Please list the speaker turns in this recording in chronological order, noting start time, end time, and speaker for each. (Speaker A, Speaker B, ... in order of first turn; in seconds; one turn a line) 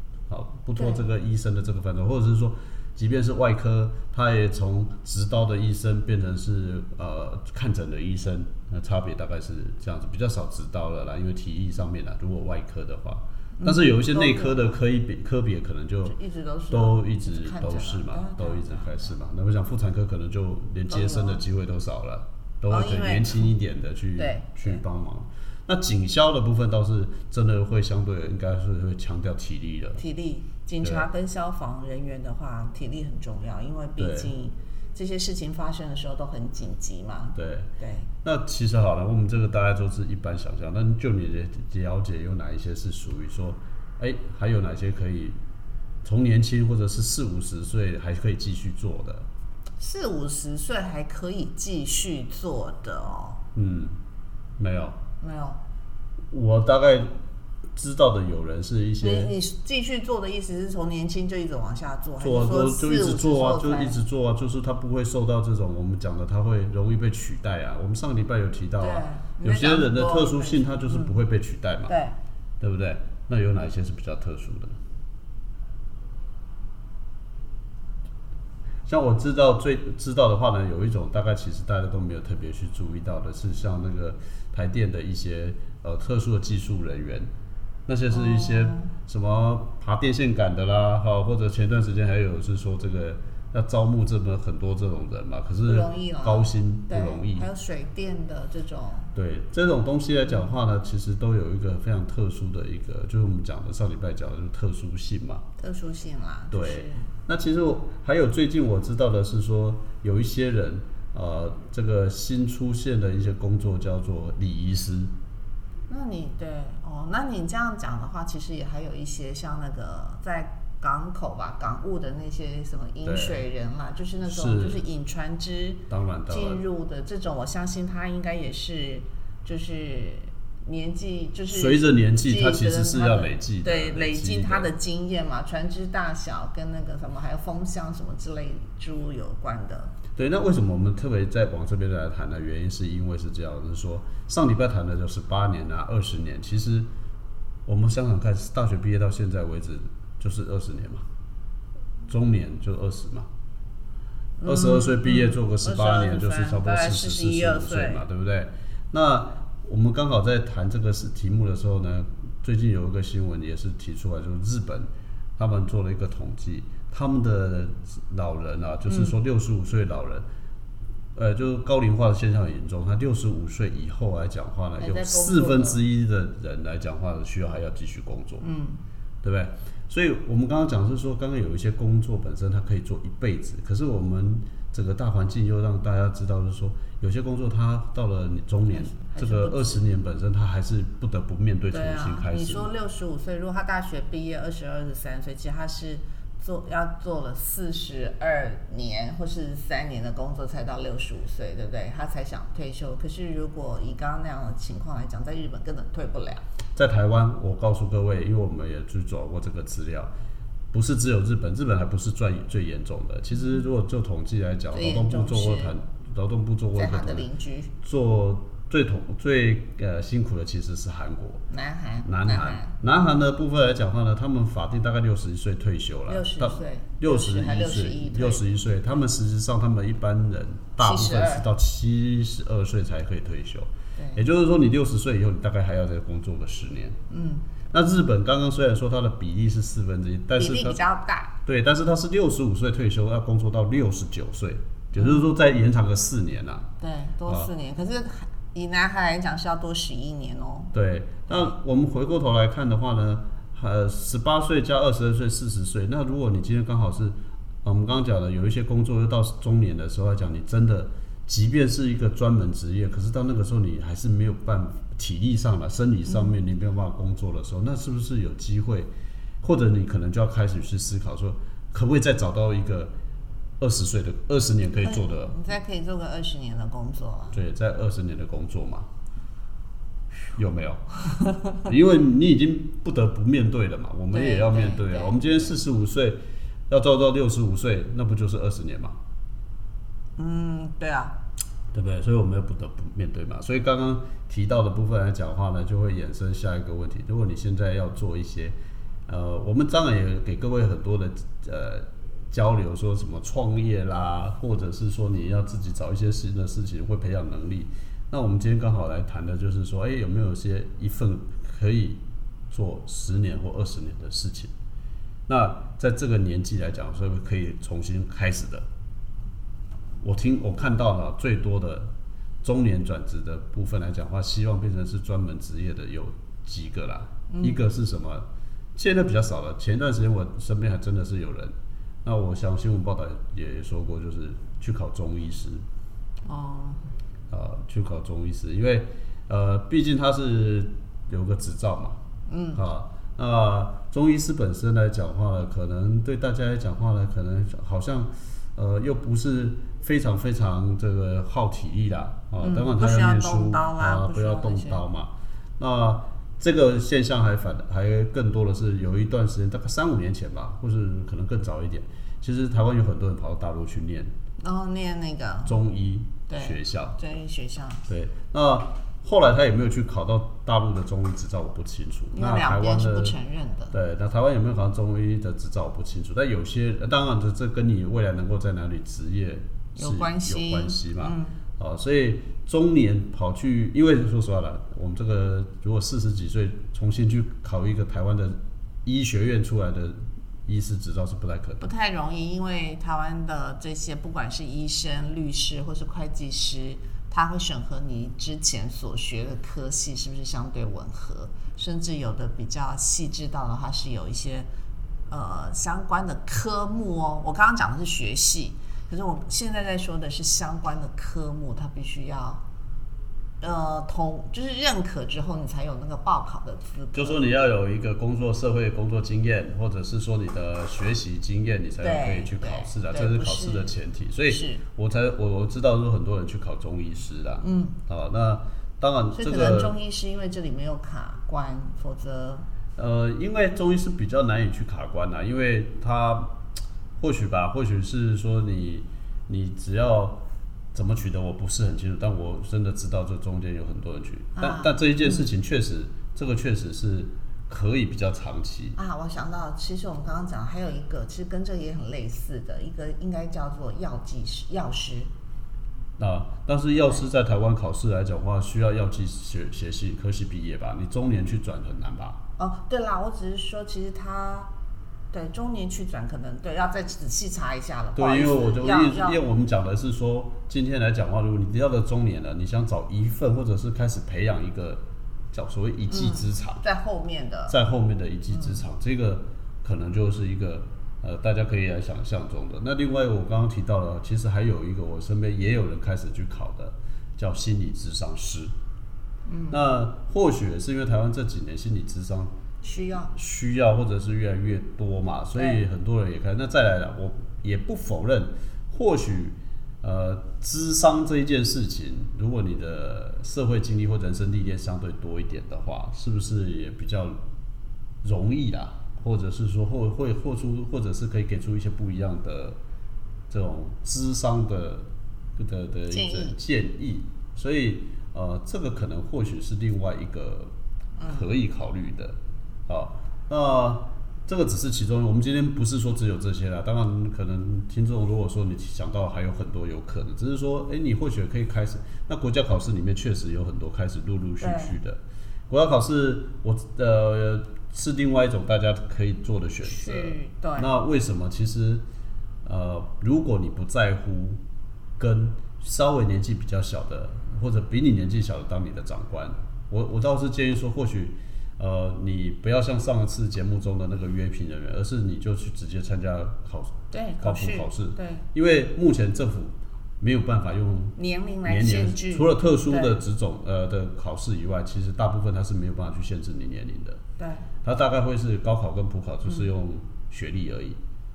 Speaker A: 0.3-16.2
Speaker B: 0.8-1.0
Speaker B: 13.6-14.8
Speaker B: 16.1-19.1
Speaker A: 16.7-30.0
Speaker B: 20.9-21.4
Speaker B: 22.7-23.5
Speaker B: 24.1-24.8
Speaker B: 29.9-38.1
Speaker A: 30.8-31.1
Speaker A: 34.0-34.3
Speaker A: 37.3-37.7
Speaker A: 38.2-45.4
Speaker A: 46.0-49.3
Speaker B: 49.8-53.4
Speaker A: 53.5-54.0
Speaker A: 54.6-55.0
Speaker B: 55.2-55.6
Speaker A: 56.3-57.1
Speaker A: 57.8-59.3
Speaker B: 59.0-64.0
Speaker A: 62.2-71.9
Speaker B: 68.8-71.2
Speaker B: 71.9-72.2
Speaker A: 72.6-74.8
Speaker A: 78.9-87.3
Speaker A: 87.9-97.5
Speaker B: 88.1-88.9
Speaker B: 95.6-99.1
Speaker A: 99.1-105.4
Speaker B: 105.6-107.1
Speaker A: 106.5-115.1
Speaker B: 115.9-139.9
Speaker A: 123.0-123.4
Speaker A: 124.2-124.8
Speaker A: 125.9-126.6
Speaker A: 131.5-134.7
Speaker A: 140.2-146.9
Speaker A: 147.7-151.0
Speaker A: 152.1-153.3
Speaker B: 154.4-158.0
Speaker A: 154.4-170.2
Speaker B: 168.9-169.2
Speaker A: 171.1-178.4
Speaker B: 174.8-175.8
Speaker B: 178.4-178.8
Speaker A: 179.2-192.7
Speaker B: 188.7-189.8
Speaker B: 191.7-206.4
Speaker A: 206.7-210.1
Speaker A: 210.7-217.3
Speaker B: 213.3-213.6
Speaker B: 214.7-215.7
Speaker B: 216.7-217.7
Speaker A: 217.8-221.4
Speaker B: 221.5-222.7
Speaker A: 222.0-236.9
Speaker B: 226.1-228.5
Speaker B: 230.8-231.4
Speaker B: 234.0-234.2
Speaker B: 237.1-237.4
Speaker A: 237.7-240.8
Speaker B: 240.4-241.3
Speaker A: 241.4-246.7
Speaker B: 244.9-245.3
Speaker B: 246.8-250.7
Speaker A: 250.7-268.9
Speaker B: 251.3-251.5
Speaker B: 266.1-266.3
Speaker A: 269.4-272.9
Speaker A: 273.6-275.4
Speaker B: 274.8-277.4
Speaker A: 277.3-278.9
Speaker A: 280.3-280.9
Speaker B: 281.1-281.6
Speaker A: 281.6-286.2
Speaker B: 284.1-285.5
Speaker A: 286.7-288.9
Speaker B: 290.2-291.2
Speaker A: 291.7-298.5
Speaker A: 299.1-312.0
Speaker A: 312.5-314.5
Speaker A: 315.3-318.6
Speaker A: 320.0-321.9
Speaker A: 322.4-328.2
Speaker B: 327.3-327.6
Speaker A: 328.8-335.6
Speaker B: 336.2-336.8
Speaker A: 337.3-342.0
Speaker B: 342.3-342.6
Speaker A: 342.5-364.1
Speaker B: 352.4-354.8
Speaker B: 364.4-365.6
Speaker A: 365.4-367.0
Speaker B: 366.3-367.8
Speaker A: 367.9-373.1
Speaker B: 372.1-373.7
Speaker A: 373.7-391.7
Speaker B: 379.8-381.4
Speaker B: 391.6-404.5
Speaker B: 405.1-412.4
Speaker B: 413.4-417.2
Speaker A: 416.9-429.8
Speaker B: 421.8-423.7
Speaker B: 424.3-424.6
Speaker B: 427.4-427.8
Speaker B: 429.1-432.4
Speaker A: 432.8-436.3
Speaker A: 437.0-440.2
Speaker A: 440.7-448.8
Speaker B: 444.4-445.3
Speaker B: 448.8-455.1
Speaker A: 456.0-462.2
Speaker B: 462.4-464.5
Speaker B: 465.1-469.2
Speaker A: 467.9-476.6
Speaker B: 475.9-477.6
Speaker A: 477.5-488.5
Speaker B: 478.3-478.6
Speaker B: 489.3-489.7
Speaker A: 489.5-492.3
Speaker B: 492.6-493.1
Speaker A: 493.1-507.2
Speaker B: 495.3-495.6
Speaker A: 508.0-512.6
Speaker A: 513.3-520.5
Speaker B: 515.9-516.4
Speaker B: 521.0-521.3
Speaker A: 521.0-522.2
Speaker A: 522.7-541.8
Speaker B: 534.4-534.8
Speaker B: 539.6-540.7
Speaker A: 542.4-544.4
Speaker A: 545.0-567.0
Speaker B: 556.9-558.2
Speaker B: 561.0-563.0
Speaker B: 567.2-567.5
Speaker A: 567.6-570.8